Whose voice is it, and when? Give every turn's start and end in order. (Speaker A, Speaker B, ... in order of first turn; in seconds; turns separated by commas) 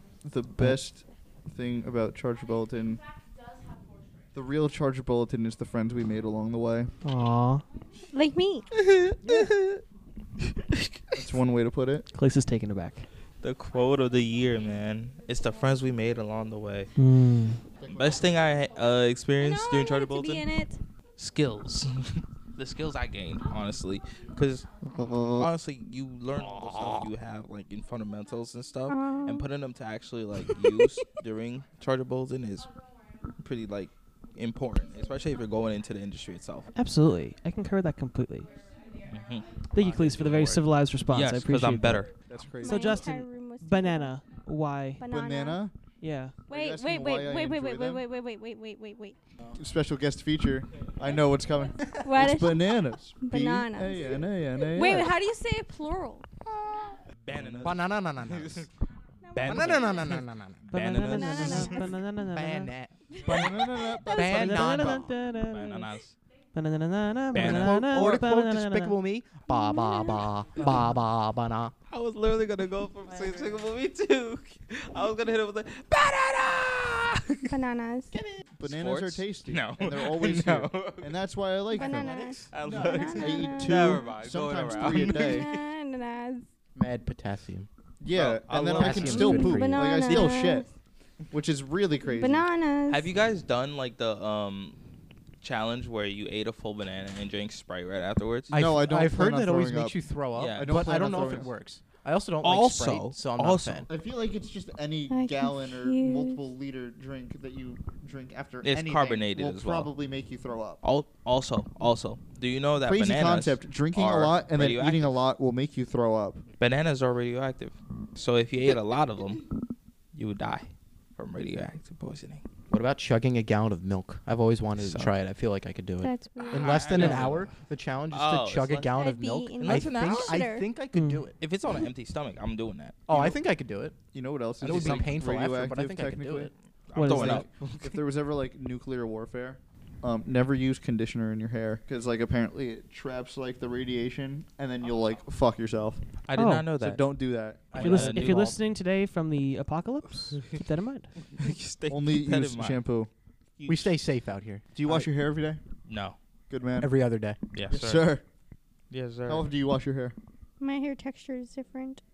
Speaker A: 0.2-3.0, Speaker A: 4.3-6.9, Speaker B: 7.0-7.6, Speaker C: 8.1-8.7, Speaker D: 8.7-9.8, Speaker A: 11.1-12.1, Speaker B: 12.1-13.1, Speaker D: 13.4-16.9, Speaker B: 16.9-17.6, Speaker A: 17.8-18.1, Speaker D: 17.9-20.5, Speaker C: 19.4-20.8, Speaker D: 21.2-24.7, Speaker A: 24.8-25.5, Speaker D: 25.3-32.7, Speaker C: 28.9-29.5, Speaker C: 30.5-30.8, Speaker D: 33.4-36.7, Speaker B: 36.7-38.5, Speaker D: 39.1-42.2, Speaker B: 39.7-42.1, Speaker A: 42.3-43.0, Speaker C: 42.6-44.1, Speaker B: 42.6-45.0, Speaker C: 45.0-45.6, Speaker A: 45.1-45.7, Speaker B: 46.0-46.4, Speaker A: 46.5-48.0, Speaker C: 46.5-49.2, Speaker A: 49.5-55.2, Speaker C: 52.0-56.2, Speaker D: 57.2-58.7, Speaker A: 57.3-57.7, Speaker E: 57.6-58.7, Speaker C: 59.2-60.1, Speaker D: 59.3-61.9, Speaker E: 59.4-60.7, Speaker B: 60.7-62.7, Speaker C: 61.0-61.9, Speaker E: 62.1-65.1, Speaker C: 63.1-64.4, Speaker A: 63.2-65.0, Speaker B: 64.1-65.9, Speaker D: 65.5-66.1, Speaker B: 66.5-69.0, Speaker D: 67.3-68.2, Speaker E: 67.3-71.7, Speaker C: 69.5-70.3, Speaker D: 71.9-77.5, Speaker C: 77.5-78.1, Speaker A: 78.5-85.5, Speaker D: 78.6-81.1, Speaker C: 81.7-84.1, Speaker E: 81.7-83.2, Speaker D: 82.5-85.5, Speaker C: 84.6-86.4, Speaker E: 86.7-87.7, Speaker A: 88.0-90.7, Speaker D: 88.1-89.5, Speaker E: 88.7-90.2, Speaker C: 89.0-90.7, Speaker A: 91.3-92.5, Speaker C: 92.0-93.1, Speaker D: 92.9-94.8, Speaker D: 95.4-98.6, Speaker E: 98.5-103.9, Speaker A: 98.5-100.0, Speaker D: 100.3-101.1, Speaker A: 100.5-101.5, Speaker D: 102.4-103.9, Speaker A: 103.9-110.8, Speaker C: 105.1-106.4, Speaker D: 108.6-109.9, Speaker D: 110.8-115.2, Speaker A: 112.8-116.4, Speaker D: 116.6-119.4, Speaker D: 120.1-122.4, Speaker E: 122.7-131.3, Speaker D: 124.8-125.1, Speaker C: 126.0-127.0, Speaker D: 126.5-127.5, Speaker D: 128.1-129.0, Speaker C: 128.9-130.7, Speaker D: 129.6-130.4, Speaker B: 130.9-131.2, Speaker D: 131.4-133.0, Speaker E: 133.1-134.0, Speaker A: 133.1-133.4, Speaker A: 134.1-136.5, Speaker E: 134.6-136.5, Speaker D: 134.6-135.1, Speaker D: 136.9-138.0, Speaker B: 136.9-137.4, Speaker A: 137.1-146.0, Speaker D: 146.2-147.1, Speaker B: 146.3-146.7, Speaker A: 146.8-147.9, Speaker D: 147.7-148.4, Speaker E: 147.7-148.6, Speaker B: 147.8-151.1, Speaker D: 151.4-152.8, Speaker A: 151.9-153.1, Speaker D: 153.6-153.9, Speaker E: 153.7-155.1, Speaker A: 154.7-155.6, Speaker D: 155.9-156.2, Speaker A: 156.5-156.9, Speaker E: 156.8-157.4, Speaker D: 157.5-158.1, Speaker A: 157.7-158.2, Speaker D: 158.9-159.5, Speaker A: 159.3-160.2, Speaker C: 160.6-162.0